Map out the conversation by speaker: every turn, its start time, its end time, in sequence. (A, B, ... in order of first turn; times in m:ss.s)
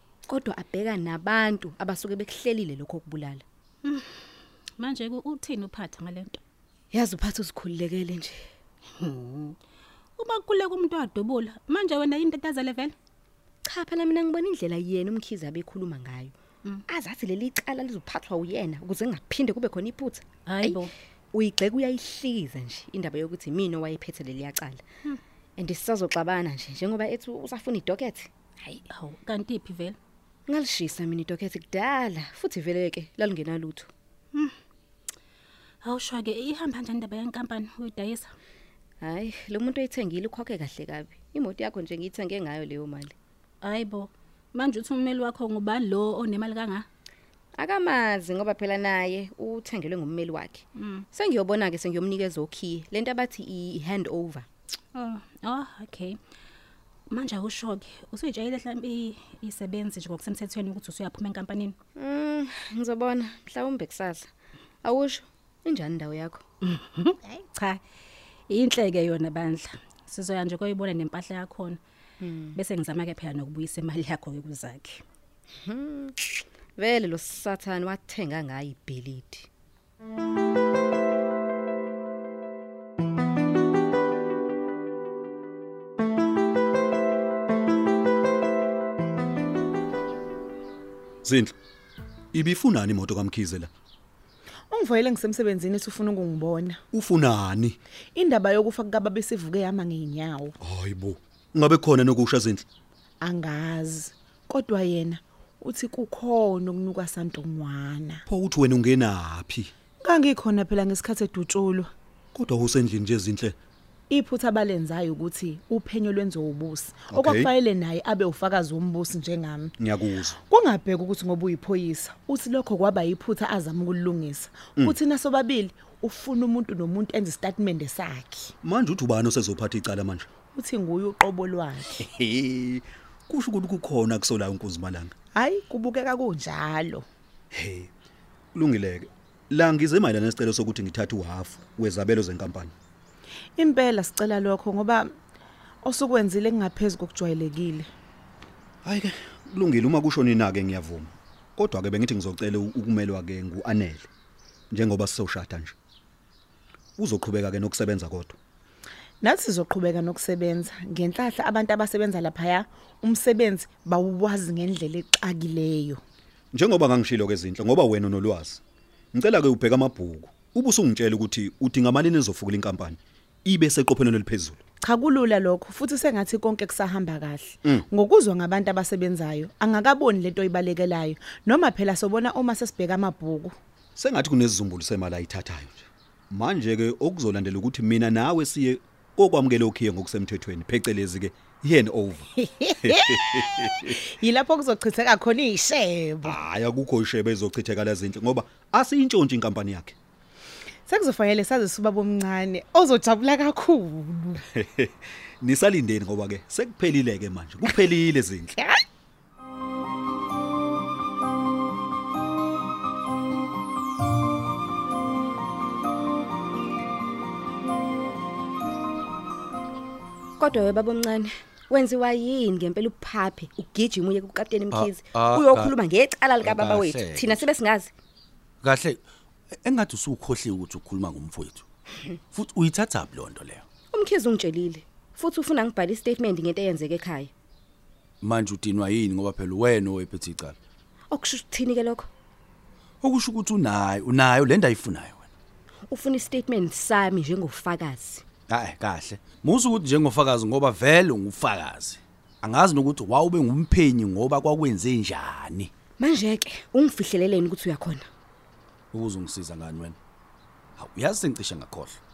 0:00.3-0:03.4 A
0:03.8-0:04.2 B
0:04.8-0:06.4 B
0:06.9-0:08.5 A
0:09.0-0:09.6 B
0:10.2-0:12.9 B
0:13.6-0:16.3 A
0:16.9-0:24.8 A
0:20.5-0:20.9 B
0:25.6-0:28.3 A
0:28.6-0:30.0 B
0:30.5-0:33.9 A
0:35.8-0:38.3 B
0:39.0-0:43.1 A
0:43.6-0:46.8 B
0:47.6-0:54.5 A
0:50.8-0:51.0 B
0:54.9-0:56.2 B
0:57.1-1:01.8 B
1:02.0-1:04.3 A
1:04.8-1:06.4 A
1:06.6-1:07.8 B
1:08.5-1:11.8 B
1:12.2-1:12.6 A
1:12.6-1:15.0 B
1:15.6-1:19.5 A
1:31.2-1:31.5 C
1:32.3-1:33.7 C
1:34.7-1:36.8 D
1:36.9-1:37.8 C
1:38.1-1:40.5 D
1:40.6-1:42.6 C
1:43.2-1:48.2 D
1:48.3-1:49.7 C
1:50.0-1:51.9 D
1:52.3-1:53.6 C
1:54.1-1:59.7 D
1:57.1-1:57.5 C
1:59.8-2:00.4 C
2:00.5-2:08.5 D
2:08.6-2:10.3 C
2:10.5-2:11.9 D
2:12.0-2:15.1 C
2:15.3-2:17.1 D
2:17.5-2:17.9 C
2:18.5-2:22.7 C
2:23.6-2:25.1 D
2:25.8-2:27.9 D
2:28.8-2:34.1 C
2:34.7-2:35.7 C
2:37.0-2:38.4 C
2:39.2-2:46.0 D
2:46.5-2:48.6 C
2:49.1-2:54.6 C
2:54.8-3:03.5 D
3:04.0-3:12.3 C
3:12.7-3:16.4 D
3:12.8-3:13.9 C
3:16.2-3:19.9 C
3:20.9-3:24.4 D
3:24.6-3:28.5 C
3:40.4-3:47.9 A
3:44.7-3:45.7 E
3:46.4-3:47.5 E
3:48.6-3:49.0 E
3:49.5-3:51.6 E
3:52.3-3:53.6 E
3:53.9-3:57.3 A
3:58.2-4:00.6 E
4:01.1-4:02.1 A
4:03.0-4:05.3 E
4:05.9-4:08.2 A
4:08.5-4:15.7 E
4:16.0-4:18.1 A
4:18.9-4:20.0 E
4:20.8-4:22.0 E